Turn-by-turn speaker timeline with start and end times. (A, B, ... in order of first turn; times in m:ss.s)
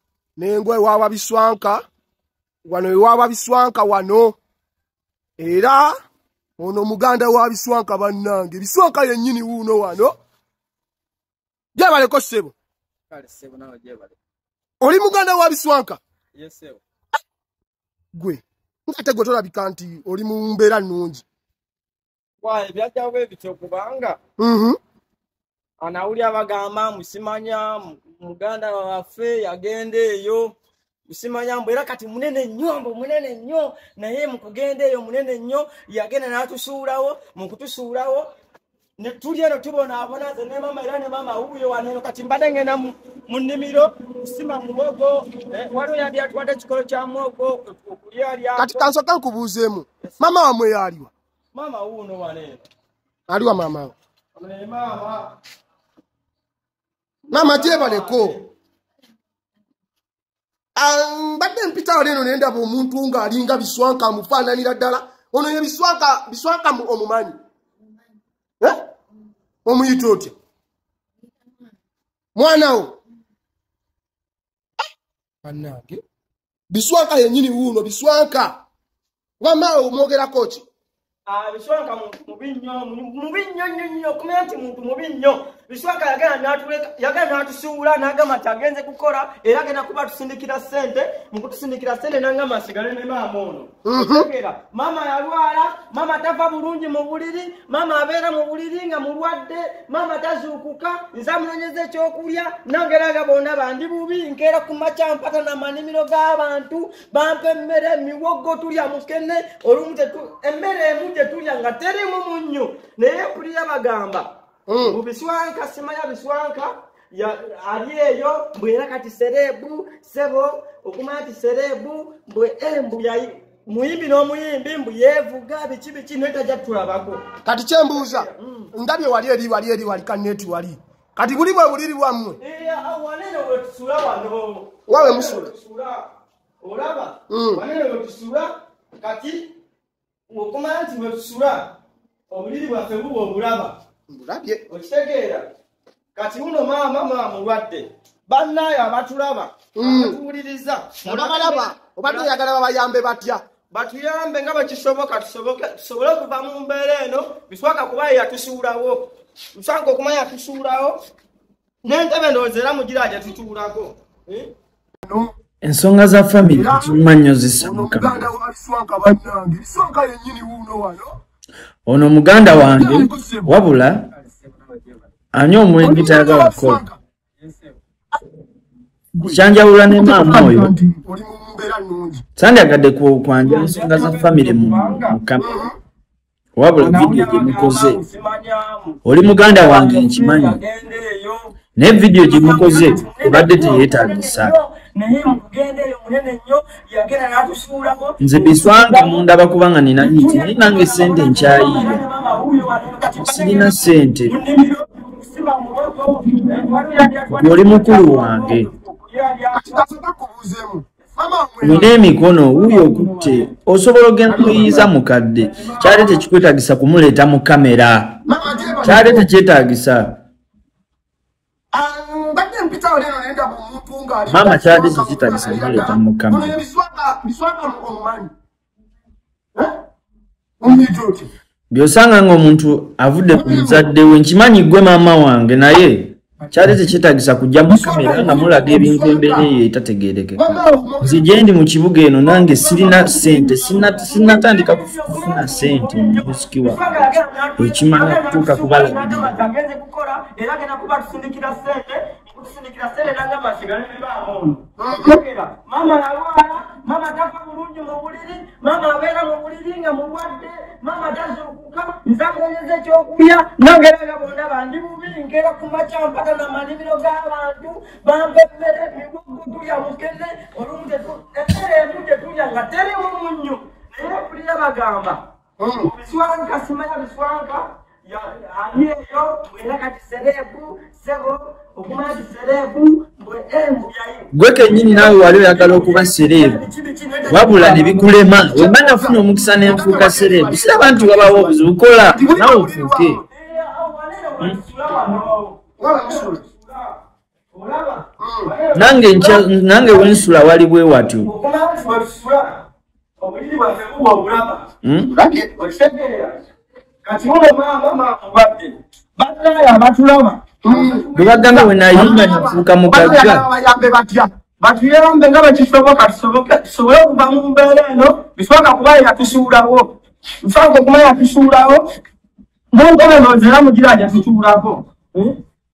0:00.4-0:01.8 A
0:02.6-0:04.4 A
0:05.4-0:06.0 A
0:06.6-0:10.1 A
0:11.8-0:12.6 A
0:13.1-0:14.2 B
0:14.8-0:16.0 A
0:16.4-0:16.8 B
0:18.1-0:21.2 A
0:22.4-0:24.2 B
0:24.4-0:24.8 A
0:25.8-0:30.6 B
0:31.1-0:38.3 B
0:39.0-0:48.9 B
0:48.6-0:51.1 A
0:51.5-0:52.7 B
0:53.3-0:54.0 A
0:54.4-0:55.4 B
0:57.3-0:58.5 B
0:57.3-0:58.4 A
1:00.8-1:07.4 A
1:09.6-1:10.3 A
1:12.4-1:12.9 A
1:15.4-1:16.0 B
1:16.7-1:18.6 A
1:19.4-1:20.6 A
1:21.3-2:07.3 B
1:33.8-1:34.3 A
1:54.7-1:55.0 A
2:07.4-2:12.4 A
2:07.9-2:08.7 B
2:12.4-2:16.0 B
2:14.9-2:15.5 A
2:16.6-2:18.5 B
2:17.3-2:17.6 A
2:19.0-2:19.5 B
2:20.3-2:21.7 B
2:22.3-2:23.8 B
2:24.1-2:24.6 A
2:24.7-2:25.5 B
2:26.2-2:32.3 B
2:29.8-2:30.2 A
2:31.0-2:33.4 A
2:33.7-2:41.0 B
2:41.8-2:44.5 B
2:45.1-2:45.3 A
2:45.6-2:48.3 C
2:46.5-2:47.0 A
2:47.6-2:51.1 A
2:51.9-2:54.0 C
2:52.6-2:53.5 A
2:54.3-2:55.0 B
2:55.3-2:56.8 C
2:55.8-2:57.0 A
2:57.4-2:57.8 B
2:59.1-3:02.2 A
2:59.2-3:00.7 C
3:02.4-3:05.6 C
3:03.4-3:05.2 B
3:05.4-3:05.8 A
3:06.6-3:08.0 C
3:06.8-3:11.5 B
3:09.1-3:10.6 C
3:11.8-3:14.5 C
3:12.2-3:19.2 B
3:18.2-3:22.0 C
3:20.0-3:29.8 B
3:23.2-3:24.3 C
3:27.3-3:28.7 C
3:29.5-3:31.9 A
3:31.6-3:38.2 C
3:31.7-3:33.5 B
3:34.3-3:36.3 B
3:34.3-3:34.8 A
3:38.3-3:39.3 A
3:38.5-3:38.7 B
3:38.8-3:40.2 C
3:41.7-3:48.3 A
3:44.3-3:46.6 C
3:50.6-3:51.3 A
3:51.7-4:09.4 C
3:53.4-3:53.9 A
3:57.7-3:59.5 A
4:00.4-4:01.3 A
4:02.2-4:35.2 B
4:14.8-4:15.2 A
4:35.6-4:35.9 A
4:35.8-4:48.4 B
4:44.3-4:46.6 C
4:47.3-4:53.2 C
4:48.5-4:51.6 A
4:52.1-4:53.2 A
4:53.3-4:57.0 B
4:55.8-4:56.4 A
4:57.5-5:00.3 B
4:58.2-4:58.5 A
4:58.7-5:01.3 C
5:01.2-5:02.6 B
5:03.2-5:04.6 B
5:04.8-5:05.1 C
5:05.1-5:05.5 A
5:05.6-5:06.4 B
5:07.0-5:12.3 B
5:10.6-5:14.3 A
5:11.2-5:13.4 C
5:14.6-5:21.8 B
5:22.7-5:25.4 B